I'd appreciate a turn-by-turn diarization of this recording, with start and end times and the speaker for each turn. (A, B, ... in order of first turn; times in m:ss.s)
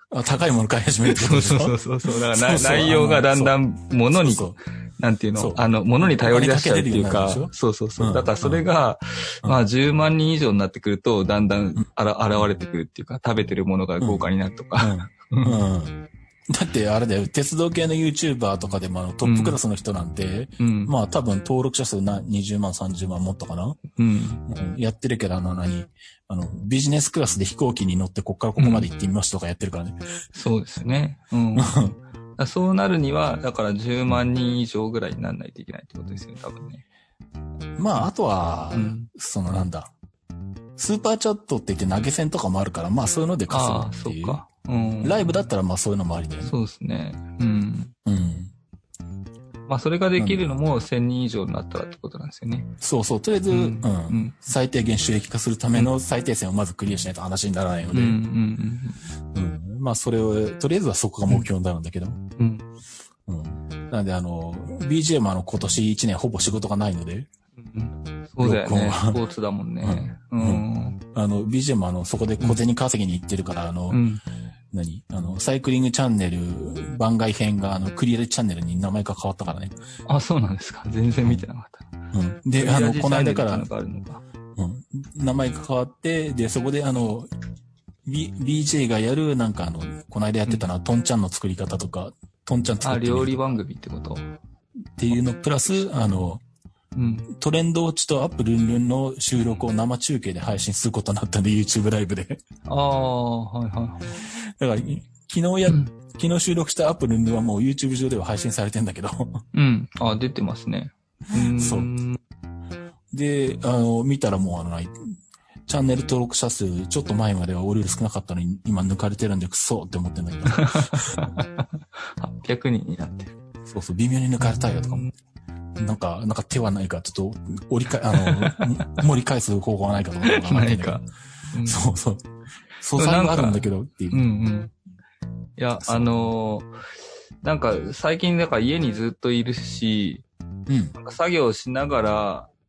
0:00.1-0:03.6 A
0:01.0-0:15.6 B
0:04.1-0:04.6 A
0:05.4-0:08.7 A
0:14.0-0:23.8 A
0:19.2-0:19.6 B
0:20.6-0:20.9 B
0:24.0-0:24.4 B
0:24.5-0:30.0 A
0:28.6-0:28.9 B
0:30.3-0:36.8 B
0:31.6-0:31.9 A
0:37.8-0:39.9 A
0:38.7-0:39.1 B
0:40.8-0:44.4 A
0:43.5-0:45.4 B
0:45.0-0:46.5 A
0:46.4-0:48.0 B
0:48.1-0:48.5 A
0:49.7-0:52.7 B
0:50.2-0:50.4 A
0:52.8-0:58.2 A
0:53.5-0:54.4 B
0:57.9-0:59.0 B
0:59.3-1:02.2 A
1:02.4-1:02.7 B
1:03.3-1:07.3 A
1:07.6-1:11.0 B
1:08.4-1:09.2 A
1:09.8-1:14.0 A
1:13.9-1:14.2 B
1:14.7-1:19.8 A
1:20.1-1:21.9 B
1:22.1-1:23.7 A
1:22.6-1:24.2 B
1:24.6-1:27.3 A
1:28.0-1:33.6 A
1:32.8-1:34.3 B
1:35.0-1:36.4 A
1:37.0-1:37.3 B
1:37.3-1:42.4 A
1:42.7-1:44.2 B
1:44.3-1:49.4 A
1:49.5-1:52.2 B
1:51.4-1:51.9 A
1:53.1-2:01.3 A
2:00.5-2:03.3 B
2:03.7-2:05.1 A
2:04.4-2:05.1 B
2:05.8-2:11.0 A
2:08.1-2:09.0 B
2:10.2-2:11.8 B
2:11.6-2:12.3 A
2:12.8-2:14.2 A
2:13.0-2:14.7 B
2:15.6-2:16.7 B
2:15.8-2:16.1 A
2:17.4-2:20.2 B
2:20.7-2:20.9 A
2:21.0-2:22.5 B